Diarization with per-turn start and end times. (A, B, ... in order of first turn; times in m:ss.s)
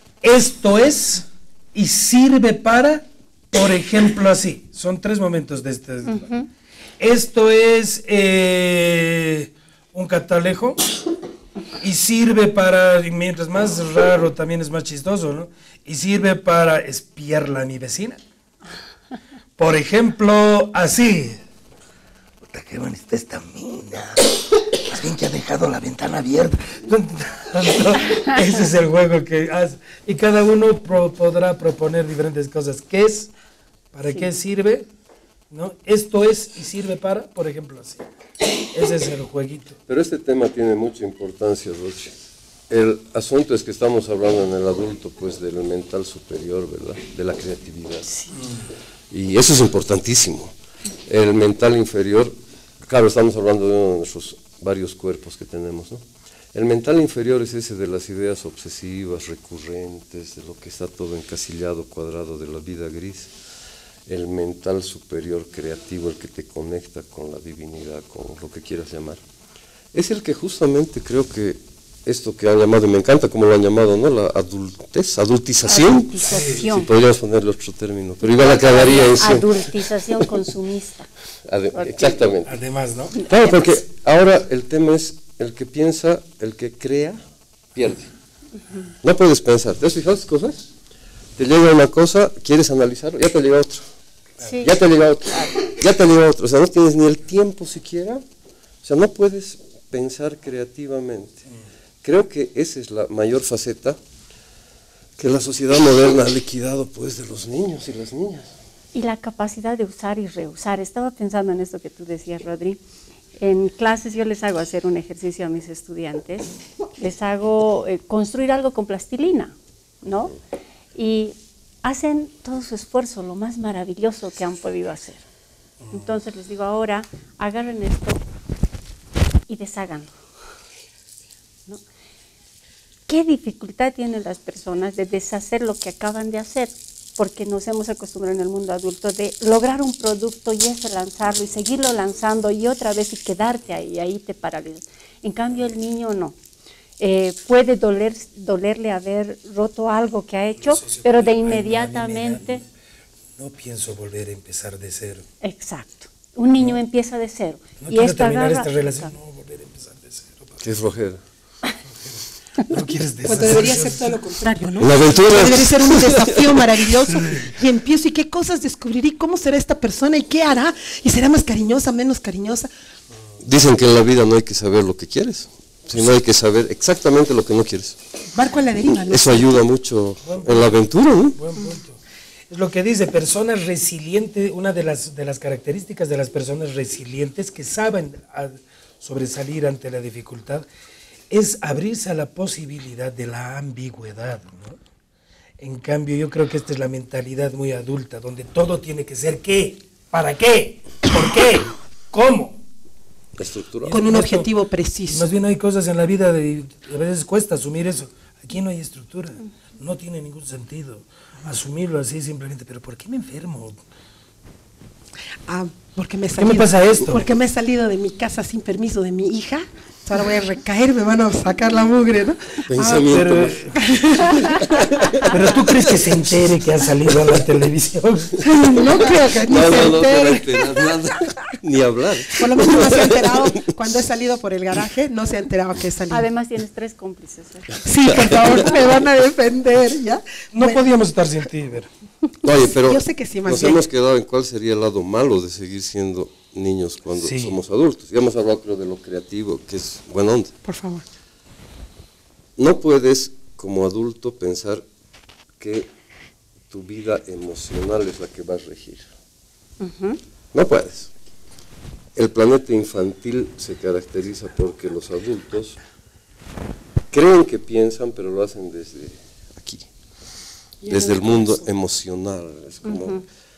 0:00.2-0:06.4 A
0:07.0-0:10.9 A
0:11.8-0:18.2 A
0:19.6-0:21.4 A
0:22.5-0:33.3 A
0:33.9-0:34.9 A
0:35.5-0:38.0 A
0:38.7-0:39.8 A
0:39.9-0:42.1 B
0:42.7-0:48.1 B
0:49.1-0:50.5 B
0:51.1-0:56.0 B
0:56.5-1:03.3 B
1:04.1-1:09.2 B
1:09.9-1:19.9 B
1:15.7-1:16.9 C
1:16.2-1:16.6 A
1:18.2-1:21.1 C
1:21.4-1:22.6 B
1:21.7-1:22.2 C
1:22.4-1:23.2 A
1:23.2-1:23.6 C
1:23.2-1:27.2 B
1:27.8-1:28.1 B
1:29.0-1:30.6 B
1:31.4-1:33.8 B
1:34.4-1:35.5 C
1:34.6-1:38.2 B
1:38.8-1:41.4 B
1:42.0-1:44.0 B
1:45.2-1:48.5 B
1:48.9-1:52.8 C
1:53.4-2:00.3 C
2:01.0-2:05.2 C
2:05.9-2:08.2 C
2:09.5-2:10.2 C
2:13.1-2:26.4 C
2:27.0-2:32.6 C
2:30.6-2:32.6 A
2:33.4-2:35.3 A
2:35.4-2:39.1 C
2:37.8-2:40.6 A
2:40.6-2:41.2 B
2:42.0-2:44.3 A
2:43.2-2:52.7 D
2:44.8-2:46.6 B
2:47.1-2:47.6 A
2:53.4-2:58.0 B
2:58.3-2:59.5 D
2:59.1-3:01.4 B
3:00.2-3:00.7 A
3:01.4-3:10.7 A
3:11.3-3:14.8 A
3:15.6-3:22.6 A
3:23.4-3:24.0 B
3:23.8-3:24.5 A
3:23.9-3:25.3 D
3:25.1-3:33.8 A
3:35.5-3:43.1 D
3:36.4-3:37.3 A
3:42.7-3:43.7 B
3:43.0-3:44.6 A
3:43.8-3:44.8 D
3:44.5-3:46.2 B
3:45.2-3:48.4 A
3:48.4-3:50.9 D
3:49.1-3:53.7 B
3:52.3-3:56.3 D
3:56.1-3:57.8 C
3:57.8-4:00.8 D
3:58.2-3:58.5 B
4:00.5-4:01.9 A
4:02.4-4:10.5 B
4:02.6-4:03.8 D
4:07.2-4:07.6 A
4:10.6-4:11.0 D
4:12.6-4:14.8 B
4:15.6-4:15.9 B
4:16.7-4:19.1 B
4:19.8-4:20.2 C
4:20.5-4:21.1 B
4:22.2-4:25.8 B
4:27.1-4:29.9 B
4:30.8-4:31.6 D
4:30.9-4:33.2 B
4:32.9-4:33.2 C